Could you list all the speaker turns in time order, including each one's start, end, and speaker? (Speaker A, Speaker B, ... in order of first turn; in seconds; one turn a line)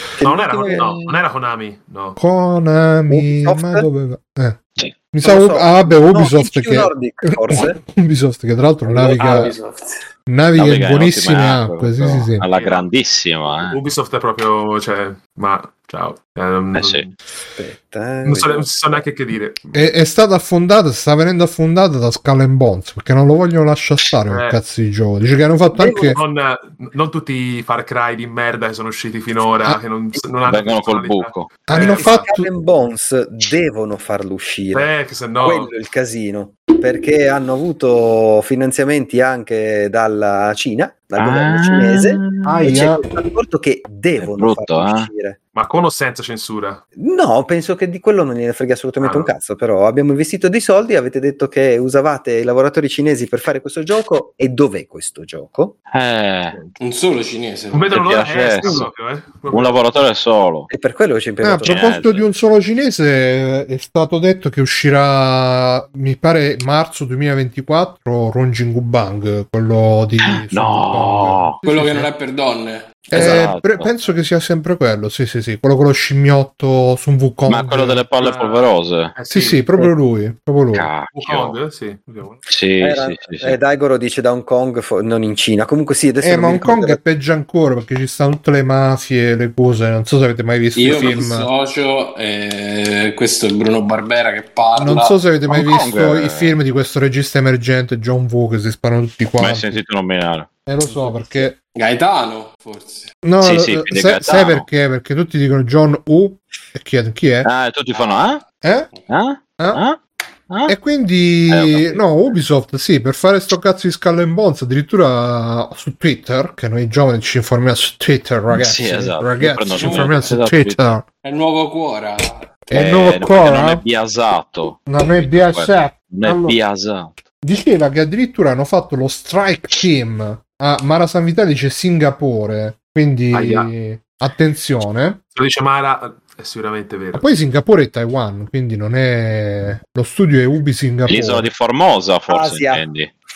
Speaker A: 0.2-1.0
Speaker B: 0.2-2.2
Speaker C: 2.2-9.5
Speaker A: 3.1-3.9
Speaker A: 5.2-7.8
Speaker D: 8.8-10.0
Speaker C: 10.3-12.4
Speaker E: 10.6-13.8
Speaker B: 12.5-12.9
Speaker B: 13.7-17.1
Speaker E: 16.7-17.0
Speaker A: 17.6-19.0
Speaker B: 18.2-19.9
Speaker C: 19.7-26.2
Speaker B: 24.3-24.6
Speaker A: 25.8-26.2
Speaker B: 26.1-32.3
Speaker E: 30.4-31.5
Speaker C: 31.7-32.5
Speaker A: 31.7-34.9
Speaker B: 34.7-35.7
Speaker A: 35.4-45.4
Speaker E: 41.2-42.6
Speaker C: 42.4-43.0
Speaker E: 44.2-45.1
Speaker B: 45.5-46.8
Speaker A: 47.0-55.7
Speaker E: 55.9-56.5
Speaker D: 56.8-58.0
Speaker B: 57.7-60.1
Speaker E: 57.9-58.9
Speaker E: 59.5-60.7
Speaker A: 60.7-62.0
Speaker C: 61.4-72.1
Speaker E: 61.6-62.2
Speaker E: 70.3-71.5
Speaker D: 71.6-73.2
Speaker C: 73.1-78.0
Speaker E: 73.1-73.9
Speaker E: 77.5-79.1
Speaker B: 78.2-79.7
Speaker C: 79.3-80.9
Speaker E: 80.7-81.6
Speaker B: 81.1-82.4
Speaker E: 82.5-83.6
Speaker A: 82.8-87.0
Speaker C: 86.2-91.5
Speaker D: 90.7-95.1
Speaker C: 94.7-99.8
Speaker E: 95.5-96.6
Speaker E: 99.4-100.5
Speaker C: 100.7-101.5
Speaker D: 100.8-103.1
Speaker C: 103.2-107.5
Speaker E: 103.4-104.6
Speaker E: 107.4-108.4
Speaker C: 108.6-108.9
Speaker E: 109.1-110.0
Speaker E: 110.5-110.7
Speaker C: 110.7-121.0
Speaker E: 111.5-112.0
Speaker E: 118.5-120.8
Speaker D: 119.7-120.3
Speaker D: 121.2-122.6
Speaker C: 122.7-123.8
Speaker E: 122.7-127.2
Speaker C: 124.9-126.6
Speaker C: 127.4-135.2
Speaker B: 133.3-133.7
Speaker B: 135.3-137.3
Speaker C: 137.1-141.5
Speaker E: 141.1-143.1
Speaker A: 142.3-142.8